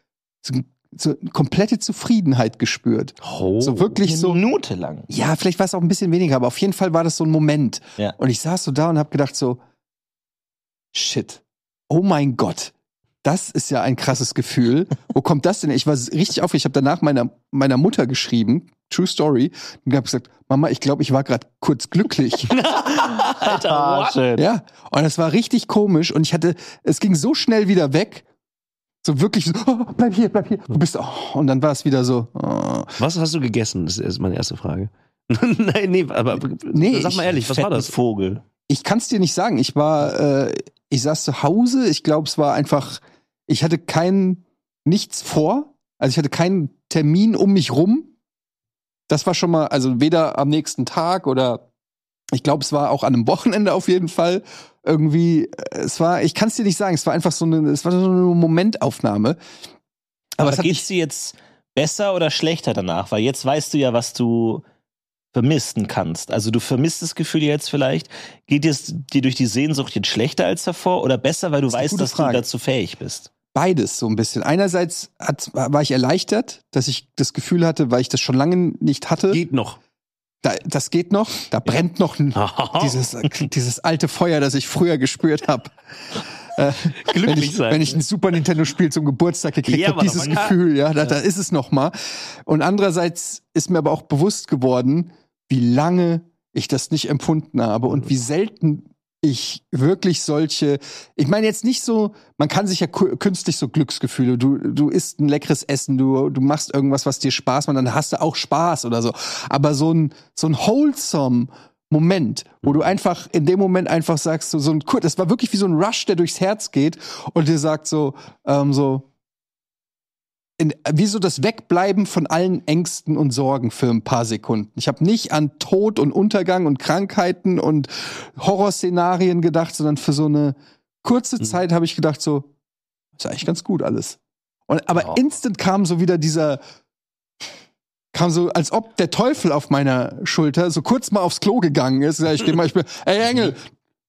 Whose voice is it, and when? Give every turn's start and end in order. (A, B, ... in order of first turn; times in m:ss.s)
0:00.4-0:04.4 A
0:03.2-0:04.0 B
0:04.1-0:05.1 C
0:05.1-0:09.6 A
0:10.9-0:22.5 A
0:22.5-0:24.2 B
0:22.7-0:24.4 C
0:24.4-0:28.2 A
0:29.0-0:33.0 A
0:33.0-0:37.9 B
0:36.7-0:37.3 A
0:37.4-0:38.4 C
0:38.7-0:48.1 A
0:49.1-0:51.6 A
0:52.3-0:59.4 A
1:00.4-1:00.9 A
1:00.4-1:04.6 C
1:05.3-1:13.3 C
1:11.7-1:12.4 A
1:13.5-1:19.4 A
1:19.3-1:19.8 B
1:20.4-1:25.8 A
1:22.4-1:23.1 B
1:26.5-1:59.1 A
1:27.0-1:28.0 B
1:29.7-1:31.2 B
1:52.6-1:52.9 B
2:00.6-2:12.5 A
2:13.2-2:14.2 A
2:14.7-2:16.6 A
2:18.1-2:23.7 A